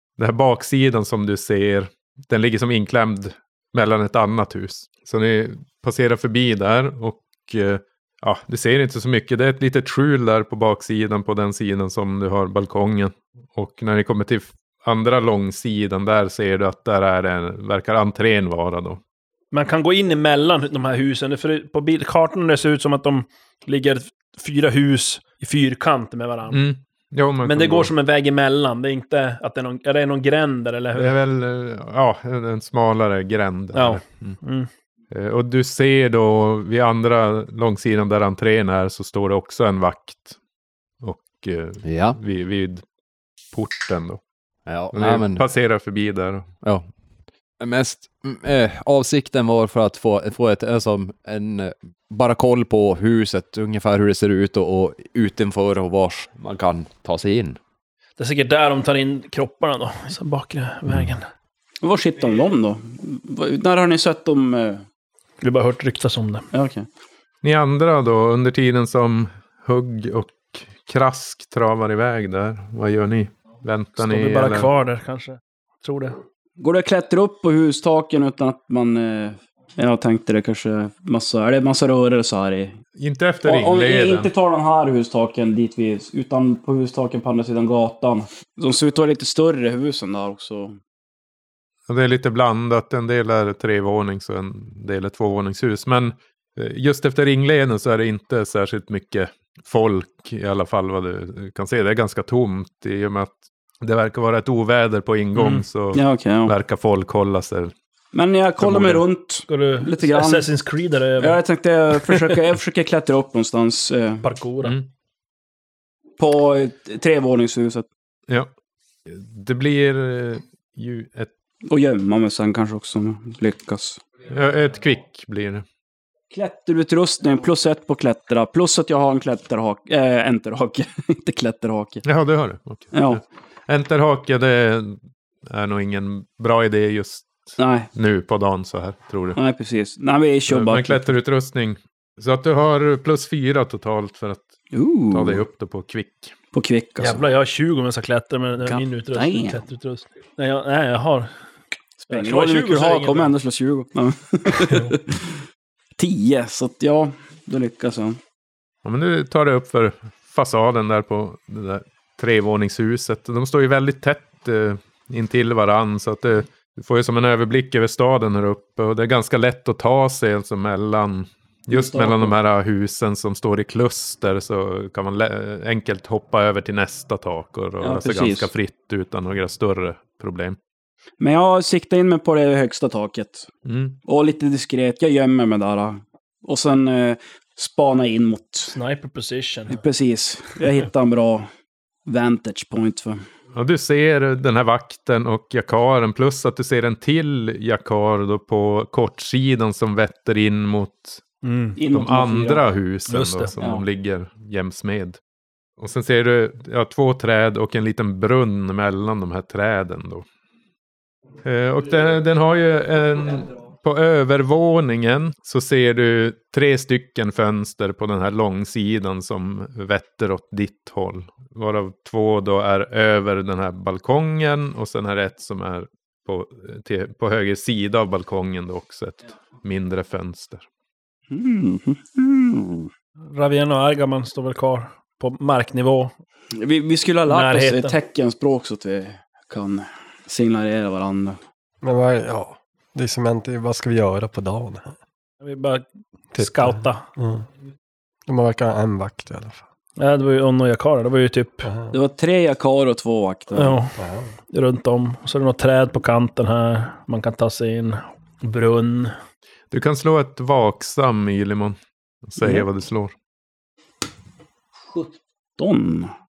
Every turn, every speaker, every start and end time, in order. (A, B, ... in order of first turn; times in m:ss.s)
0:00.2-0:19.0 A
0:19.5-0:26.6 B
0:26.5-0:27.9 A
0:27.4-0:31.2 B
0:31.0-0:34.4 A
0:33.7-0:34.7 B
0:35.1-0:40.4 A
0:41.0-0:42.8 A
0:41.8-0:42.2 C
0:43.5-0:44.2 A
0:44.7-0:45.4 C
0:44.9-0:46.5 A
0:46.6-0:46.9 C
0:47.6-0:57.6 C
0:58.2-1:01.3 B
1:01.8-1:04.8 D
1:05.4-1:06.4 B
1:06.5-1:06.9 D
1:07.4-1:14.7 A
1:14.0-1:16.2 B
1:16.6-1:22.8 D
1:23.0-1:24.3 A
1:23.4-1:30.8 D
1:31.9-1:47.7 A
1:45.4-1:45.7 B
1:45.9-1:46.6 D
1:48.1-1:50.5 D
1:48.6-1:49.0 A
1:49.5-1:51.4 B
1:51.2-1:54.2 D
1:54.2-1:54.8 B
1:56.2-1:57.9 D
1:59.1-2:01.3 A
2:01.7-2:04.0 D
2:04.3-2:05.6 A
2:06.3-2:12.0 D
2:12.0-2:19.4 A
2:12.9-2:13.2 D
2:17.6-2:17.9 D
2:19.4-2:21.0 D
2:20.5-2:24.5 A
2:24.7-2:25.4 D
2:25.1-2:26.3 A
2:26.5-2:27.2 D
2:27.0-2:31.3 B
2:28.6-2:29.6 D
2:32.0-2:35.4 D
2:32.1-2:33.3 B
2:34.6-2:34.9 B
2:36.0-2:38.2 D
2:38.8-3:00.6 A
2:51.7-2:52.4 D
2:57.8-2:58.5 D
3:01.2-3:03.5 D
3:03.7-3:04.0 A
3:04.1-3:08.8 D
3:08.7-3:09.8 B
3:09.7-3:11.5 D
3:12.1-3:13.2 D
3:13.6-3:21.2 A
3:21.4-3:21.8 B
3:21.8-3:22.6 D
3:21.9-3:25.2 A
3:23.1-3:23.5 B
3:23.6-3:23.8 D
3:25.8-3:30.3 A
3:31.4-3:50.6 A
3:51.3-3:52.9 D
3:53.3-3:56.1 B
3:56.6-4:01.4 D
3:57.3-3:58.0 B
4:01.8-4:05.0 E
4:05.4-4:07.1 B
4:06.3-4:07.4 E
4:08.3-4:09.6 E
4:10.0-4:11.7 B
4:11.6-4:12.0 E
4:11.9-4:13.8 D
4:13.6-4:14.0 B
4:14.0-4:14.3 E
4:14.5-4:19.1 B
4:19.7-4:23.1 A
4:24.9-4:26.1 D